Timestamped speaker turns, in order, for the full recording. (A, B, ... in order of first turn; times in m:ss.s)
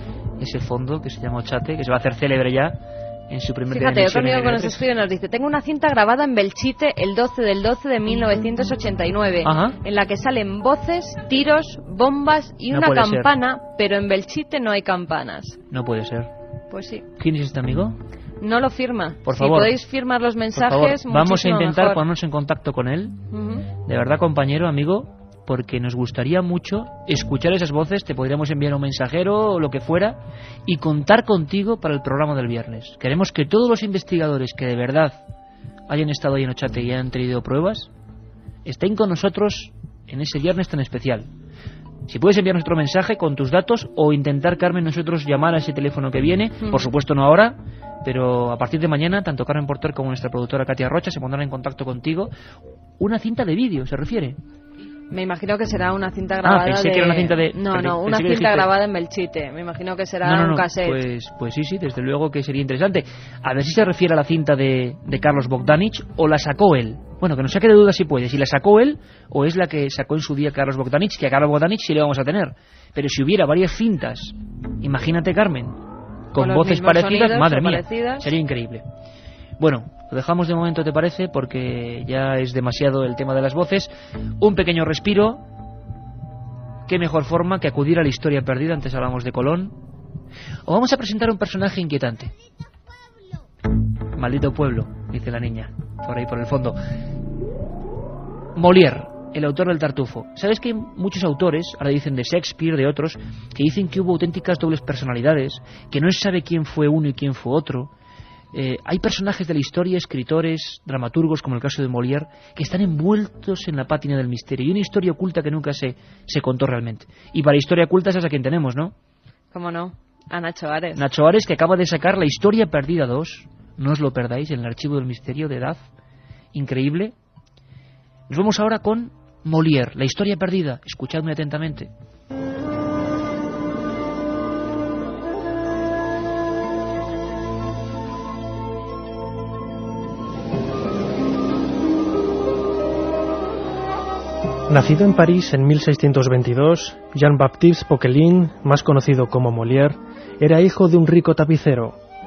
0:00.4-0:04.8 A
0:03.7-0:15.6 B
0:09.4-0:09.8 A
0:12.7-0:13.3 A
0:15.7-0:16.3 A
0:16.7-0:17.0 B
0:17.2-0:18.0 A
0:18.4-0:22.0 B
0:19.2-0:19.8 A
0:20.6-0:23.2 A
0:23.3-0:23.7 B
0:23.8-0:35.2 A
0:35.9-0:37.9 A
0:38.6-0:41.3 A
0:42.1-0:52.3 A
0:53.0-0:54.4 A
0:55.1-1:01.0 B
0:56.4-0:58.7 A
1:00.2-1:15.8 A
1:16.3-1:18.8 A
1:16.3-1:18.3 B
1:19.6-1:25.4 A
1:26.9-1:29.8 A
1:30.6-1:32.3 A
1:34.2-1:36.8 A
1:38.6-1:47.9 A
1:48.5-1:58.9 A
1:59.5-2:01.0 B
2:01.0-2:05.8 A
2:06.5-2:07.1 A
2:08.3-2:11.9 A
2:24.7-2:32.0 C